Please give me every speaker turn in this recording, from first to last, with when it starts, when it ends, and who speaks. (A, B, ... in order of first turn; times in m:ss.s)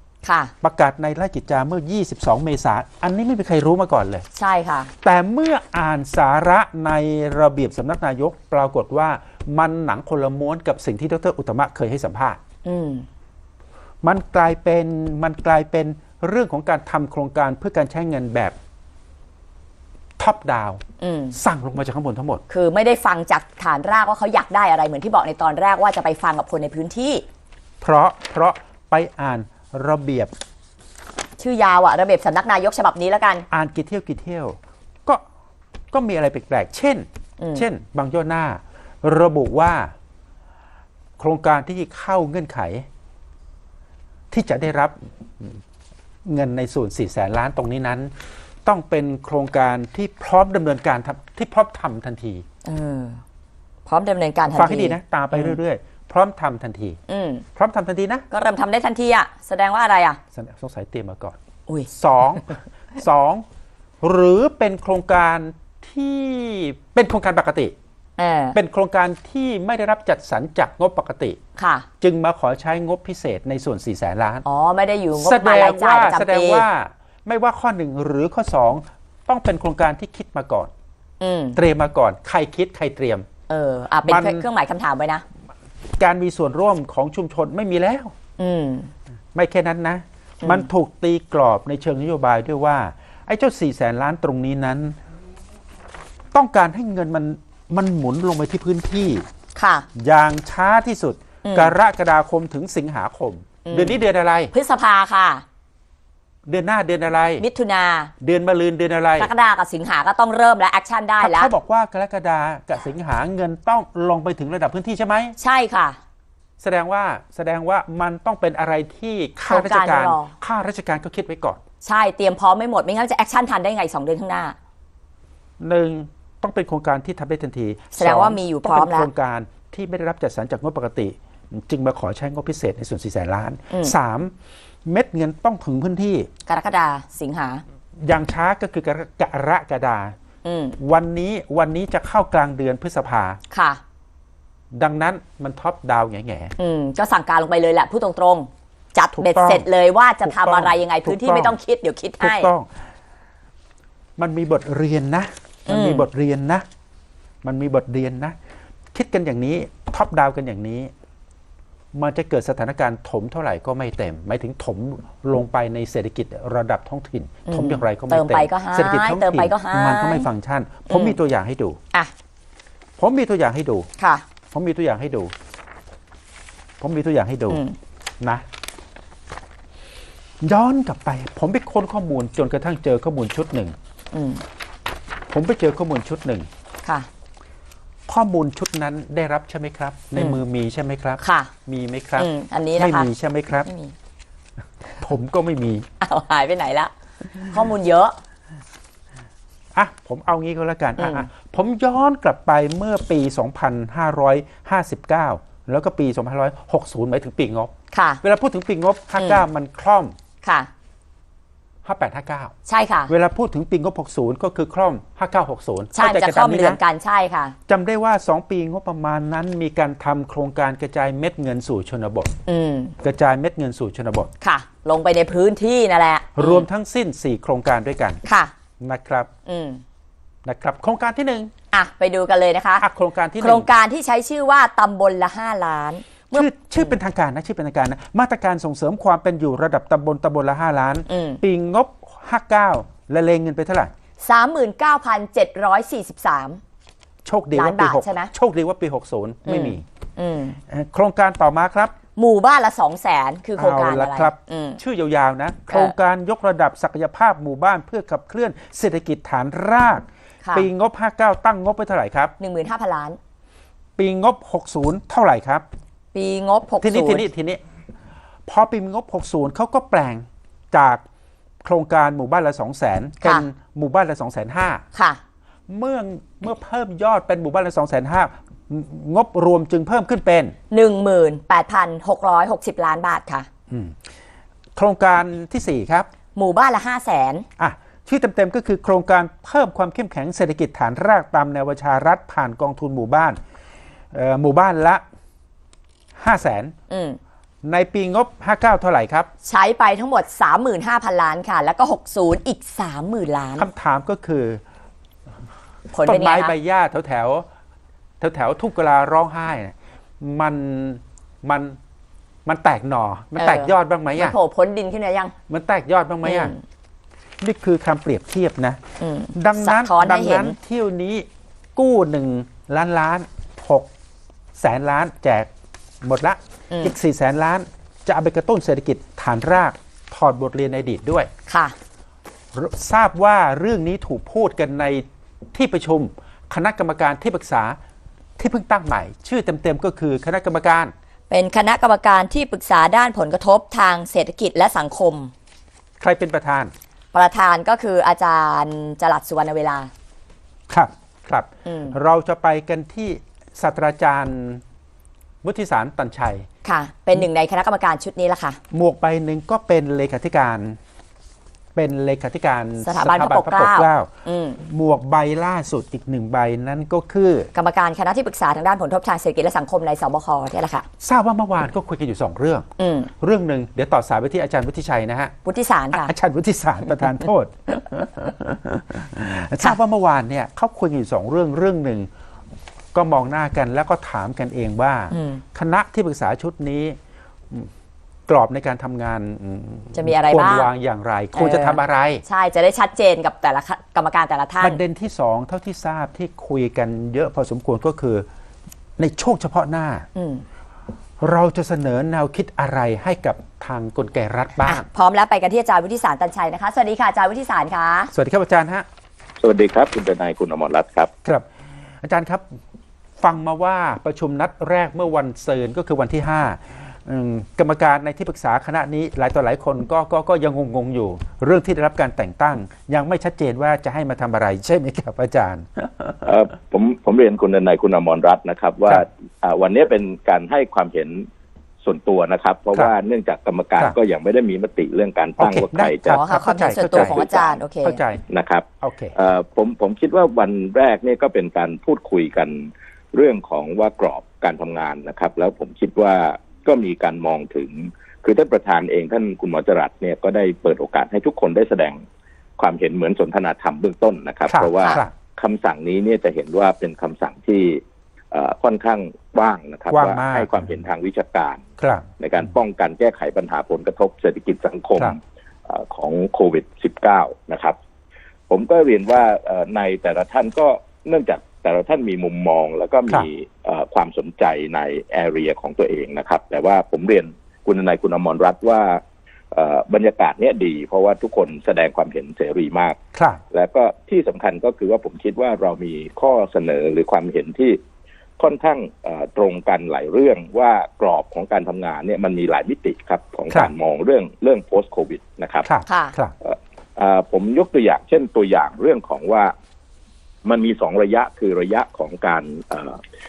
0:00.2-0:00.5 A
0:00.6-0:04.2 B
0:04.3-0:04.9 A
0:05.0-0:12.4 B
0:12.6-0:13.0 A
0:14.0-0:18.5 B
0:20.2-0:20.8 B
0:21.0-0:21.4 A
0:21.3-0:22.4 B
0:22.5-0:27.2 A
0:27.8-0:30.3 B
0:31.4-0:33.4 A
0:33.5-0:35.2 B
0:35.9-0:39.9 B
0:37.4-0:37.6 A
0:41.2-0:42.9 B
0:44.3-0:45.6 B
0:46.2-0:48.1 B
0:48.6-0:52.4 B
0:52.6-0:53.2 A
0:53.8-0:55.6 A
0:54.5-0:57.0 B
0:57.1-0:57.4 A
0:57.6-0:58.2 B
0:58.3-1:00.2 A
1:00.3-1:01.4 B
1:01.9-1:03.4 B
1:04.0-1:07.7 B
1:08.2-1:08.6 A
1:08.5-1:11.4 B
1:11.6-1:11.9 A
1:12.0-1:14.4 B
1:14.4-1:16.7 A
1:15.2-1:20.7 B
1:21.2-1:21.6 A
1:21.5-1:23.3 B
1:23.5-1:25.2 A
1:24.0-1:24.4 B
1:26.0-1:28.1 B
1:28.4-1:28.9 A
1:29.3-1:35.0 B
1:30.4-1:30.7 A
1:36.3-1:39.2 B
1:39.5-1:39.9 A
1:40.0-1:44.5 B
1:41.4-1:41.7 A
1:43.6-1:45.4 A
1:46.5-1:47.4 B
1:47.4-1:48.1 A
1:48.2-1:49.3 B
1:49.2-1:51.5 A
1:51.2-1:55.4 B
1:55.4-1:56.0 A
1:56.6-2:01.6 B
1:59.4-2:00.3 A
2:01.8-2:04.6 A
2:05.6-2:14.3 B
2:07.9-2:09.1 A
2:13.7-2:13.9 A
2:14.8-2:16.3 B
2:16.4-2:17.6 A
2:18.0-2:20.1 B
2:20.4-2:20.8 A
2:20.8-2:23.4 B
2:23.5-2:23.8 A
2:24.7-2:26.5 B
2:26.6-2:32.5 A
2:29.1-2:29.7 B
2:30.2-2:31.6 B
2:32.2-2:32.7 B
2:34.2-2:36.6 B
2:35.7-2:36.1 A
2:37.4-2:38.4 B
2:38.9-2:40.9 B
2:41.9-2:51.8 B
2:47.4-2:50.3 A
2:50.9-2:51.2 A
2:53.0-2:53.9 B
2:54.0-2:54.2 A
2:54.5-2:55.3 B
2:56.8-2:57.6 B
2:57.5-2:57.8 A
2:58.2-2:58.4 B
3:00.4-3:03.7 B
3:04.1-3:04.4 A
3:05.3-3:06.5 B
3:08.1-3:13.7 B
3:10.1-3:10.4 A
3:11.2-3:11.5 A
3:12.2-3:13.1 A
3:13.6-3:13.9 A
3:15.0-3:15.8 B
3:16.0-3:18.1 A
3:19.7-3:27.7 B
3:21.0-3:21.3 A
3:27.9-3:28.2 A
3:28.2-3:30.1 B
3:29.1-3:29.4 A
3:30.4-3:30.7 A
3:31.8-3:32.5 B
3:32.6-3:33.1 A
3:33.1-3:36.8 B
3:35.9-3:37.6 A
3:37.7-3:42.3 B
3:42.4-3:42.9 A
3:43.0-3:44.3 B
3:44.4-3:46.6 A
3:46.4-3:48.2 B
3:48.2-3:48.5 A
3:48.8-3:49.3 B
3:49.4-3:49.8 A
3:50.4-3:51.5 B
3:51.7-3:52.8 A
3:52.8-3:53.7 B
3:53.4-3:56.9 A
3:56.3-4:03.9 B
4:01.1-4:01.4 A
4:04.2-4:06.6 A
4:07.2-4:09.8 B
4:07.5-4:08.3 A
4:09.4-4:10.6 A
4:10.7-4:11.9 B
4:12.1-4:14.8 A
4:13.6-4:22.3 B
4:15.7-4:15.9 A
4:20.4-4:20.7 A
4:22.4-4:23.2 A
4:24.0-4:25.6 B
4:26.1-4:27.2 A
4:26.8-4:27.6 B
4:28.5-4:31.0 B
4:31.6-4:34.8 B
4:33.2-4:33.5 A
4:34.9-4:35.2 A
4:35.7-4:40.6 B
4:40.7-4:43.5 A
4:43.7-4:44.0 B
4:44.8-4:46.1 B
4:46.3-4:47.4 A
4:47.6-4:53.4 B
4:54.1-4:55.0 B
4:56.2-4:56.7 B
4:56.9-4:57.2 A
4:57.6-4:59.3 B
4:59.4-5:03.7 A
5:03.6-5:04.6 B
5:05.9-5:06.5 A
5:06.0-5:07.4 B
5:08.2-5:11.8 B
5:12.4-5:14.4 B
5:13.4-5:15.3 A
5:15.5-5:16.5 B
5:16.2-5:16.6 A
5:17.4-5:18.8 B
5:19.0-5:20.5 A
5:19.3-5:23.9 B
5:24.6-5:25.5 B
5:26.0-5:31.3 B
5:31.5-5:31.7 A
5:32.5-5:37.8 B
5:38.4-5:40.9 B
5:41.3-5:45.3 A
5:46.0-5:46.7 B
5:47.1-5:49.9 A
5:50.7-5:54.6 B
5:51.6-5:52.0 A
5:55.4-5:56.4 B
5:56.6-5:58.6 A
5:58.7-6:00.8 B
6:01.7-6:07.5 B
6:02.8-6:04.6 A
6:07.5-6:10.8 A
6:11.0-6:12.7 B
6:12.8-6:13.1 A
6:13.2-6:15.3 B
6:15.4-6:16.1 A
6:15.9-6:22.1 B
6:22.9-6:27.0 B
6:25.1-6:25.4 A
6:28.3-6:32.2 B
6:29.9-6:30.7 A
6:31.3-6:34.8 A
6:34.6-6:38.2 B
6:39.0-6:40.0 B
6:40.1-6:40.4 A
6:41.2-6:44.8 B
6:44.6-6:48.1 A
6:48.1-6:48.8 B
6:49.4-6:51.1 C
6:52.0-6:52.4 B
6:53.2-7:06.3 B
7:06.2-7:11.2 C
7:11.8-7:16.2 C
7:15.4-7:18.2 B
7:16.1-7:18.0 A
7:16.8-7:17.5 C
7:18.3-7:32.0 C
7:18.8-7:19.2 B
7:32.6-7:37.8 C
7:34.5-7:35.1 B
7:38.3-7:41.6 C
7:39.9-7:40.7 B
7:41.8-7:42.0 B
7:42.2-7:47.8 C
7:48.5-7:59.0 C
7:59.5-8:03.0 C
8:03.1-8:03.4 B
8:03.5-8:07.8 C
8:08.4-8:15.7 C
8:15.6-8:16.3 B
8:15.8-8:16.2 A
8:16.4-8:19.5 C
8:20.4-8:23.0 C